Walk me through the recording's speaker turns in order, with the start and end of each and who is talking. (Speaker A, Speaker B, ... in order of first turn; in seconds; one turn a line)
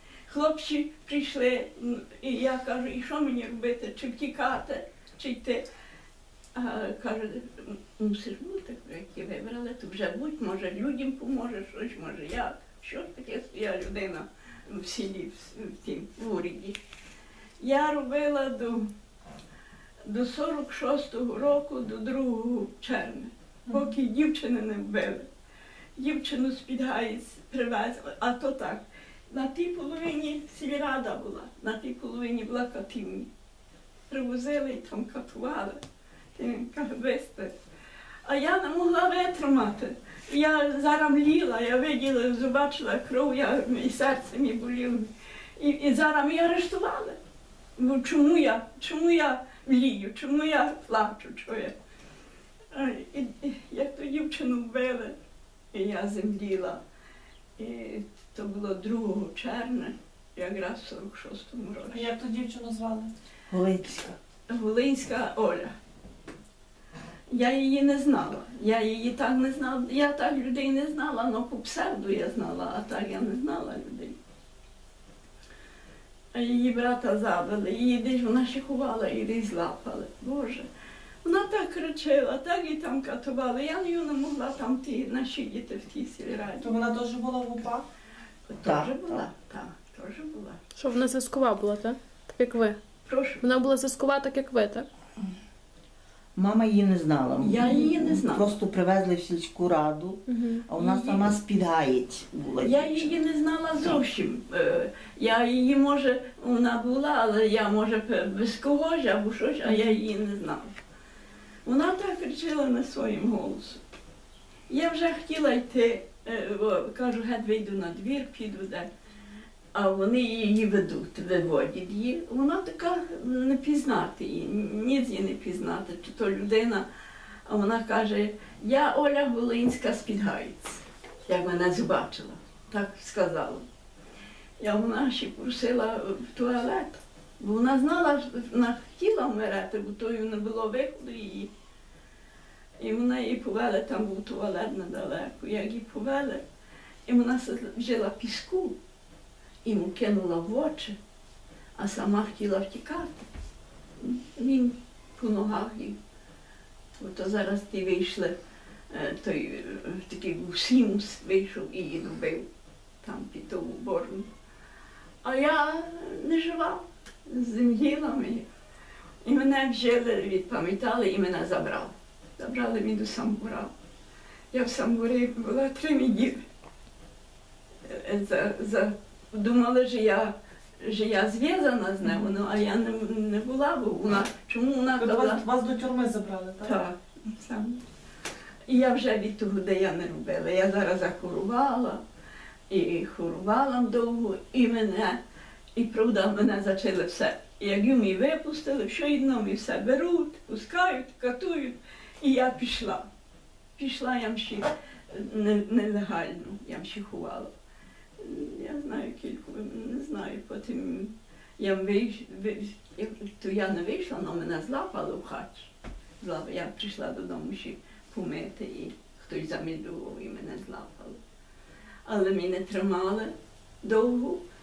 Speaker A: 0.3-5.6
Speaker A: 6.5-16.8
Speaker A: 17.6-18.9
Speaker A: 20.1-25.3
Speaker A: 26.0-33.3
Speaker A: 34.1-35.8
Speaker A: 36.3-37.5
Speaker A: 38.2-47.2
Speaker A: 47.8-51.7
Speaker A: 52.7-55.1
Speaker A: 55.7-56.8
Speaker A: 57.6-62.1
Speaker B: 61.9-63.1
Speaker C: 63.5-64.2
Speaker A: 64.5-65.7
Speaker A: 67.3-74.2
Speaker A: 76.3-80.7
Speaker A: 81.2-86.7
Speaker B: 86.6-87.8
Speaker A: 88.5-90.6
Speaker C: 88.6-89.3
Speaker D: 90.8-92.8
Speaker A: 93.0-93.4
Speaker D: 93.4-94.9
Speaker C: 96.3-103.2
Speaker A: 97.4-98.5
Speaker D: 100.3-100.7
Speaker A: 100.8-101.2
Speaker A: 102.6-110.8
Speaker A: 111.7-113.8
Speaker A: 114.7-118.9
Speaker A: 119.7-126.9
Speaker A: 127.5-133.6
Speaker A: 134.6-141.5
Speaker A: 142.8-146.4
Speaker A: 147.1-148.8
Speaker A: 149.6-150.9
Speaker A: 151.8-153.3
Speaker A: 154.0-156.0
Speaker A: 157.0-158.3
Speaker A: 158.9-162.5
Speaker A: 163.0-164.3
Speaker A: 165.2-168.5
Speaker A: 169.2-173.7
Speaker A: 174.5-176.4
Speaker A: 177.8-185.4
Speaker B: 185.0-186.8
Speaker A: 186.6-187.8
Speaker A: 188.7-192.0
Speaker A: 192.7-195.2
Speaker A: 195.8-203.1
Speaker A: 203.8-207.5
Speaker A: 208.2-221.2
Speaker A: 222.1-224.4